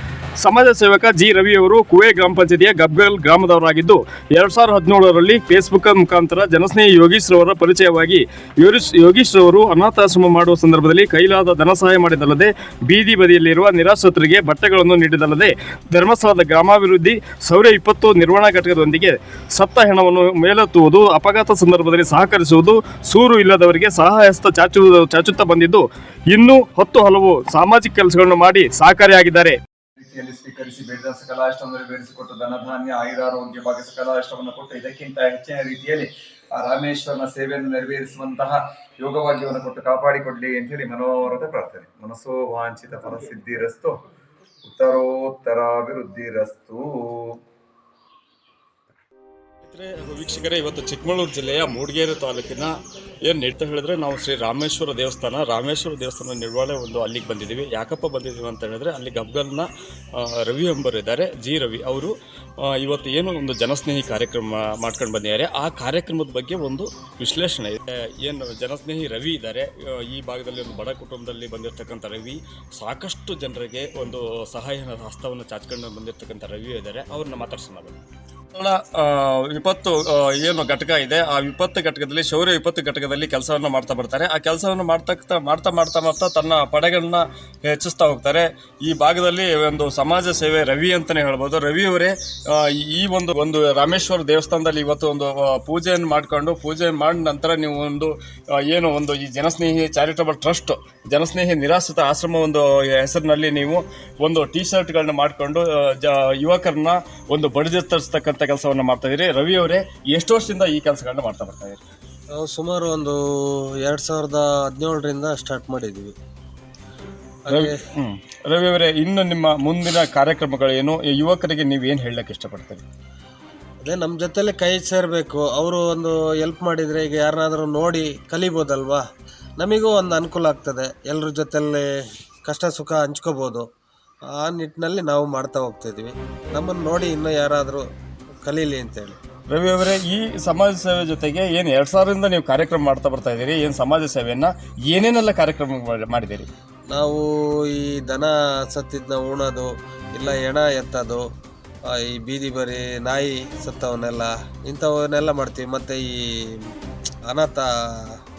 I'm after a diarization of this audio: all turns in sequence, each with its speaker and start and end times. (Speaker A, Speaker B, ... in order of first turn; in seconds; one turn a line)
Speaker A: 0.4-29.6
Speaker B: 30.0-43.9
Speaker B: 44.6-47.3
Speaker A: 49.6-52.7
Speaker A: 53.2-78.0
Speaker A: 78.5-111.8
Speaker C: 112.3-116.1
Speaker C: 117.4-117.8
Speaker A: 117.5-122.8
Speaker C: 123.8-129.0
Speaker C: 129.6-131.9
Speaker C: 132.4-133.7
Speaker C: 134.3-137.8
Speaker C: 138.4-139.2
Speaker A: 139.5-146.5
Speaker C: 146.9-151.2
Speaker C: 151.9-156.6
Speaker C: 157.3-158.2